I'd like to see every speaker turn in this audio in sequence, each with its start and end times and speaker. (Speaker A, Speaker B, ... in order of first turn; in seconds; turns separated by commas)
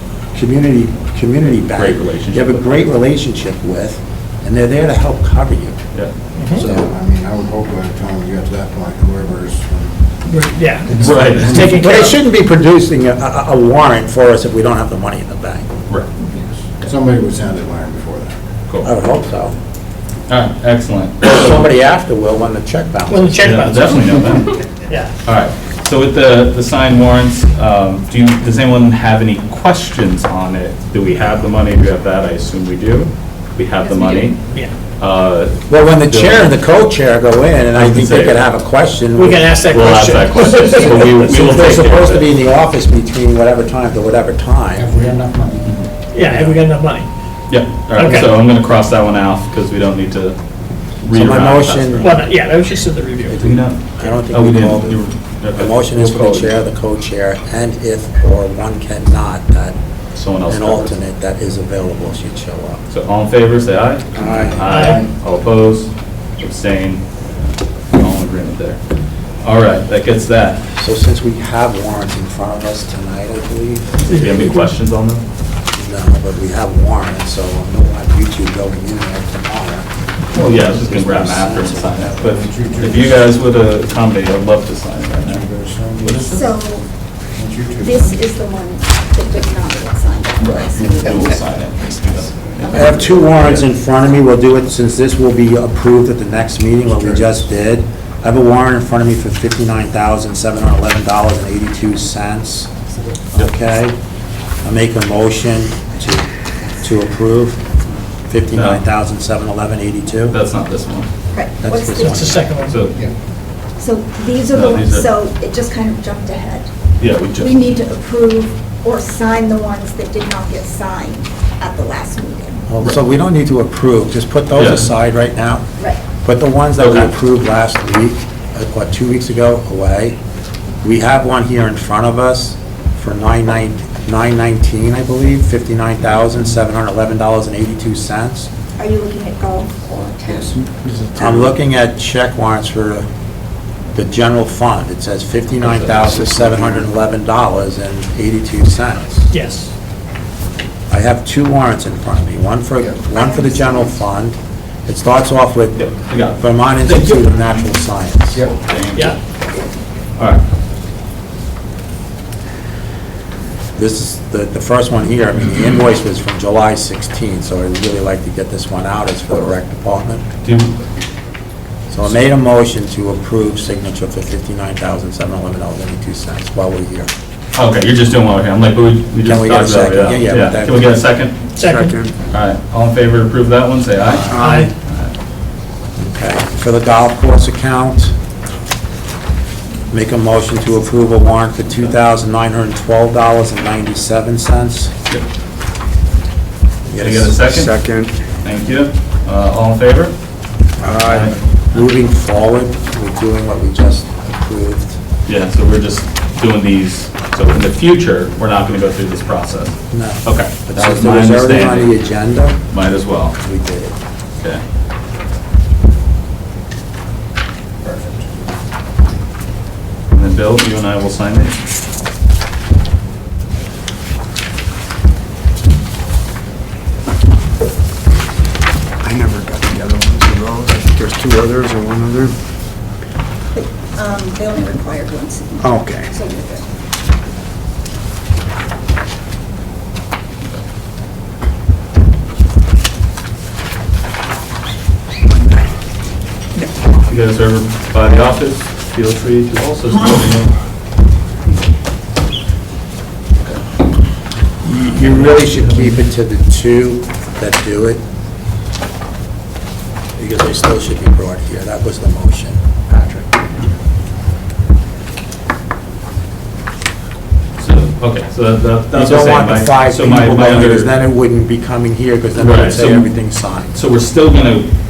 Speaker A: 0.3-5.8, Speaker B: 1.5-2.8, Speaker C: 6.4-6.7, Speaker A: 6.6-6.9, Speaker D: 6.6-10.0, Speaker C: 10.2-12.2, Speaker B: 10.9-11.7, Speaker A: 11.6-15.7, Speaker D: 16.7-18.4, Speaker A: 18.8-19.6, Speaker B: 20.3-21.7, Speaker A: 21.2-23.5, Speaker C: 23.1-25.1, Speaker B: 23.4-24.7, Speaker B: 25.2-36.6, Speaker E: 33.8-34.4, Speaker A: 35.7-39.6, Speaker B: 37.8-38.4, Speaker C: 39.1-41.7, Speaker B: 39.7-42.3, Speaker A: 40.6-45.0, Speaker D: 44.9-45.7, Speaker C: 46.1-47.1, Speaker A: 46.2-46.6, Speaker B: 47.5-50.4, Speaker C: 48.0-48.3, Speaker B: 51.0-52.2, Speaker A: 51.1-52.1, Speaker C: 52.0-53.4, Speaker A: 53.3-59.8, Speaker B: 53.4-56.6, Speaker B: 60.1-61.0, Speaker A: 60.5-62.8, Speaker B: 62.9-68.8, Speaker A: 64.2-64.7, Speaker D: 64.7-64.9, Speaker C: 64.7-65.1, Speaker B: 69.4-70.7, Speaker A: 70.8-74.1, Speaker B: 74.0-75.2, Speaker C: 74.1-74.7, Speaker A: 75.8-79.9, Speaker B: 80.3-85.5, Speaker A: 80.4-82.1, Speaker D: 82.2-83.2, Speaker D: 85.2-86.3, Speaker B: 86.0-86.5, Speaker E: 86.3-86.9, Speaker D: 87.3-88.1, Speaker E: 87.8-91.5, Speaker B: 90.4-93.6, Speaker E: 92.6-93.3, Speaker A: 92.7-102.7, Speaker A: 103.3-104.0, Speaker A: 104.6-107.6, Speaker A: 108.3-110.4, Speaker B: 108.5-108.8, Speaker B: 110.3-111.1, Speaker E: 111.3-112.4, Speaker A: 111.6-112.5, Speaker C: 112.0-112.9, Speaker B: 112.7-113.0, Speaker E: 113.8-116.7, Speaker B: 114.5-115.1, Speaker B: 117.0-117.8, Speaker E: 117.3-122.6, Speaker A: 122.7-125.7, Speaker B: 124.5-124.9, Speaker A: 126.2-130.2, Speaker B: 126.8-127.1, Speaker A: 130.8-138.5, Speaker E: 138.8-140.6, Speaker F: 140.7-141.5, Speaker A: 141.2-143.1, Speaker A: 143.9-149.3, Speaker B: 145.7-146.5, Speaker C: 149.3-149.7, Speaker A: 150.9-155.8, Speaker E: 153.1-153.9, Speaker B: 155.8-157.4, Speaker A: 156.4-158.5, Speaker B: 158.3-159.2, Speaker A: 163.8-170.3, Speaker B: 170.4-170.8, Speaker A: 171.9-177.1, Speaker B: 177.6-181.5, Speaker A: 179.2-181.1, Speaker C: 181.5-182.0, Speaker F: 181.6-182.1, Speaker B: 182.3-185.2, Speaker F: 184.3-184.7, Speaker C: 184.4-184.7, Speaker A: 186.0-188.1, Speaker A: 189.9-194.9, Speaker A: 196.9-197.3, Speaker B: 197.0-197.8, Speaker F: 197.5-198.1, Speaker B: 198.4-200.1, Speaker F: 200.8-201.4, Speaker B: 201.1-201.3, Speaker A: 201.7-205.0, Speaker B: 205.3-211.9, Speaker A: 209.9-212.6, Speaker B: 212.7-213.4, Speaker A: 213.4-214.0, Speaker D: 217.9-218.2, Speaker B: 220.1-221.6, Speaker F: 229.0-232.4, Speaker E: 233.5-236.7, Speaker F: 235.6-236.1, Speaker B: 247.0-250.5, Speaker A: 254.6-258.0, Speaker B: 255.1-256.0, Speaker A: 260.2-263.4, Speaker B: 267.6-270.9, Speaker A: 268.9-273.8, Speaker B: 272.4-273.2, Speaker B: 273.7-274.7